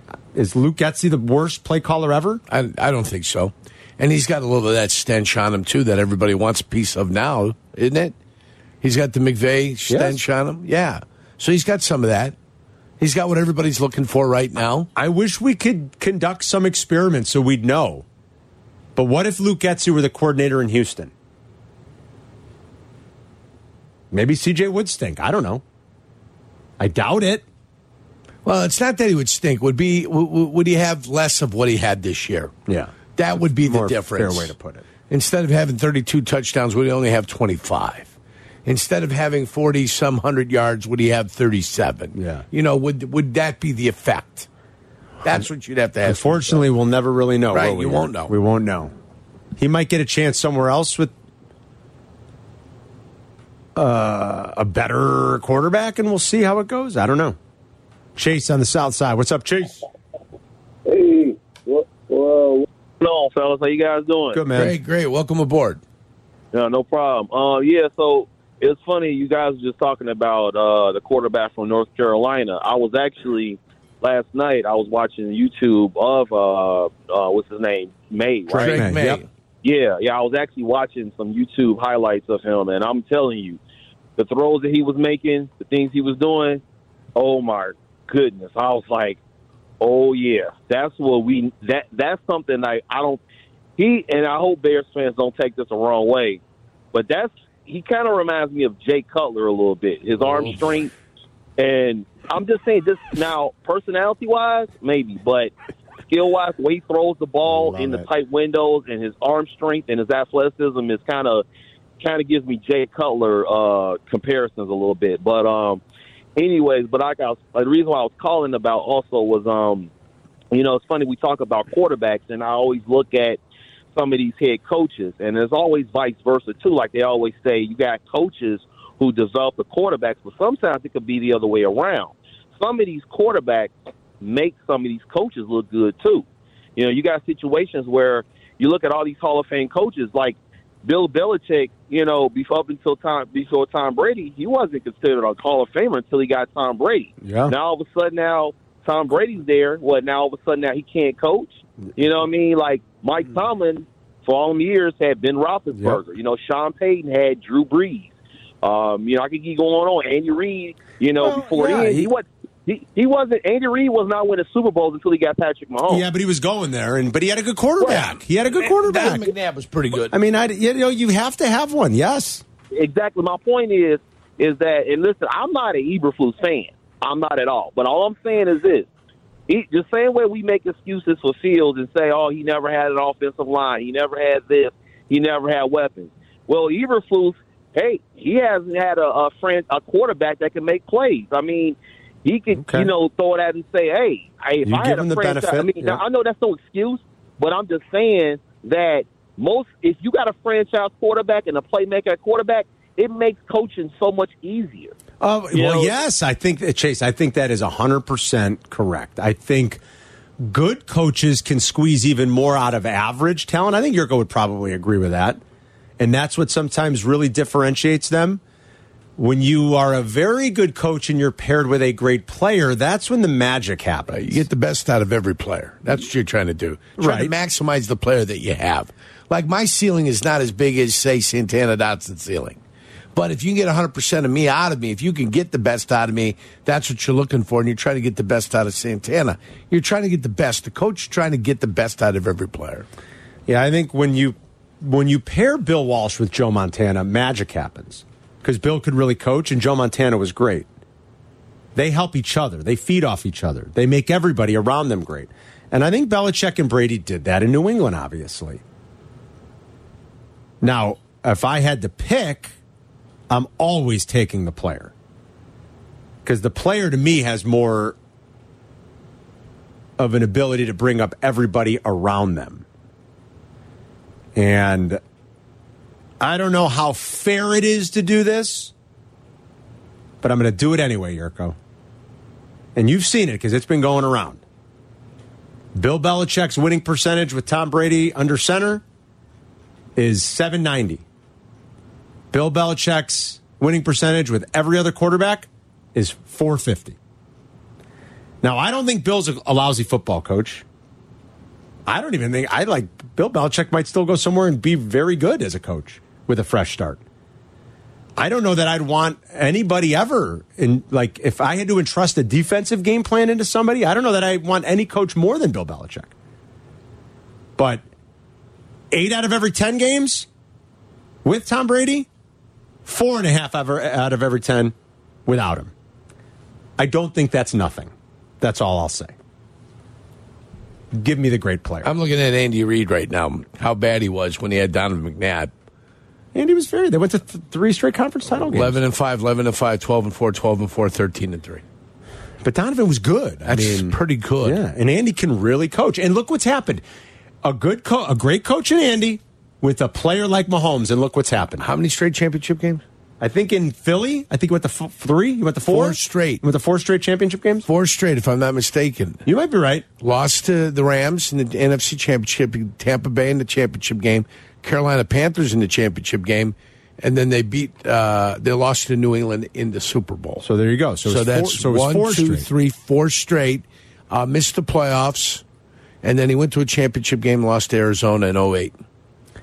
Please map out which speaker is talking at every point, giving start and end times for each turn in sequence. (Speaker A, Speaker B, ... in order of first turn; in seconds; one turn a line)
Speaker A: 0.3-2.4
Speaker B: 2.5-8.1
Speaker B: 8.8-12.3
Speaker A: 9.9-10.2
Speaker B: 13.0-14.9
Speaker A: 14.9-18.0
Speaker A: 18.9-21.1
Speaker A: 24.1-25.6
Speaker A: 26.8-27.4
Speaker B: 28.4-32.5
Speaker A: 32.7-33.0
Speaker B: 33.1-34.5
Speaker A: 33.5-34.8
Speaker B: 35.1-38.1
Speaker B: 38.6-44.5
Speaker A: 42.1-42.4
Speaker B: 45.2-46.6
Speaker A: 46.0-48.9
Speaker B: 47.5-48.3
Speaker A: 49.6-51.1
Speaker A: 53.8-57.4
Speaker A: 58.1-59.8
Speaker C: 63.0-64.4
Speaker A: 64.3-64.7
Speaker B: 64.5-65.8
Speaker C: 66.5-78.8
Speaker A: 78.5-79.2
Speaker B: 78.5-79.2
Speaker C: 79.6-83.6
Speaker C: 84.2-86.6
Speaker C: 87.2-89.2
Speaker C: 89.8-93.2
Speaker C: 93.8-96.4
Speaker C: 96.9-100.9
Speaker B: 100.2-100.6
Speaker C: 101.6-105.5
Speaker C: 106.1-111.4
Speaker A: 107.4-108.1
Speaker C: 112.0-115.8
Speaker C: 116.4-119.9
Speaker C: 120.5-123.4
Speaker C: 123.9-136.2
Speaker C: 136.8-158.1
Speaker A: 147.2-147.5
Speaker A: 155.7-156.0
Speaker C: 158.6-166.0
Speaker A: 161.2-162.1
Speaker A: 165.9-169.3
Speaker B: 168.7-170.1
Speaker A: 170.1-172.4
Speaker C: 172.7-178.9
Speaker C: 179.5-204.9
Speaker A: 192.5-192.9
Speaker A: 194.6-196.0
Speaker A: 205.2-209.8
Speaker C: 205.5-205.9
Speaker A: 210.4-215.4
Speaker A: 216.0-218.4
Speaker A: 219.2-224.4
Speaker B: 224.1-232.6
Speaker A: 227.0-227.3
Speaker B: 233.1-242.8
Speaker A: 243.5-250.7
Speaker A: 251.7-258.6
Speaker A: 260.6-262.5
Speaker A: 263.3-264.9
Speaker A: 266.2-268.0
Speaker A: 270.0-272.6
Speaker A: 274.3-275.0
Speaker A: 276.2-278.7
Speaker A: 280.2-281.6
Speaker A: 282.7-284.4
Speaker A: 285.7-288.8
Speaker A: 289.9-291.0
Speaker A: 292.3-297.0
Speaker A: 298.4-300.6
Speaker A: 301.9-307.0
Speaker A: 308.2-316.1
Speaker A: 317.6-317.8
Speaker A: 318.9-320.3
Speaker A: 321.2-322.1
Speaker A: 322.8-324.7
Speaker A: 325.2-325.7
Speaker A: 326.8-329.1
Speaker A: 330.9-331.9
Speaker B: 331.8-335.5
Speaker A: 336.3-338.8
Speaker B: 338.4-341.6
Speaker A: 342.4-346.8
Speaker B: 343.4-344.6
Speaker A: 347.4-351.7
Speaker B: 351.6-352.8
Speaker A: 353.2-357.7
Speaker B: 355.7-356.4
Speaker B: 357.6-359.2
Speaker A: 359.2-359.9
Speaker B: 360.0-370.4
Speaker A: 370.4-372.5
Speaker B: 371.1-375.4
Speaker B: 376.0-378.7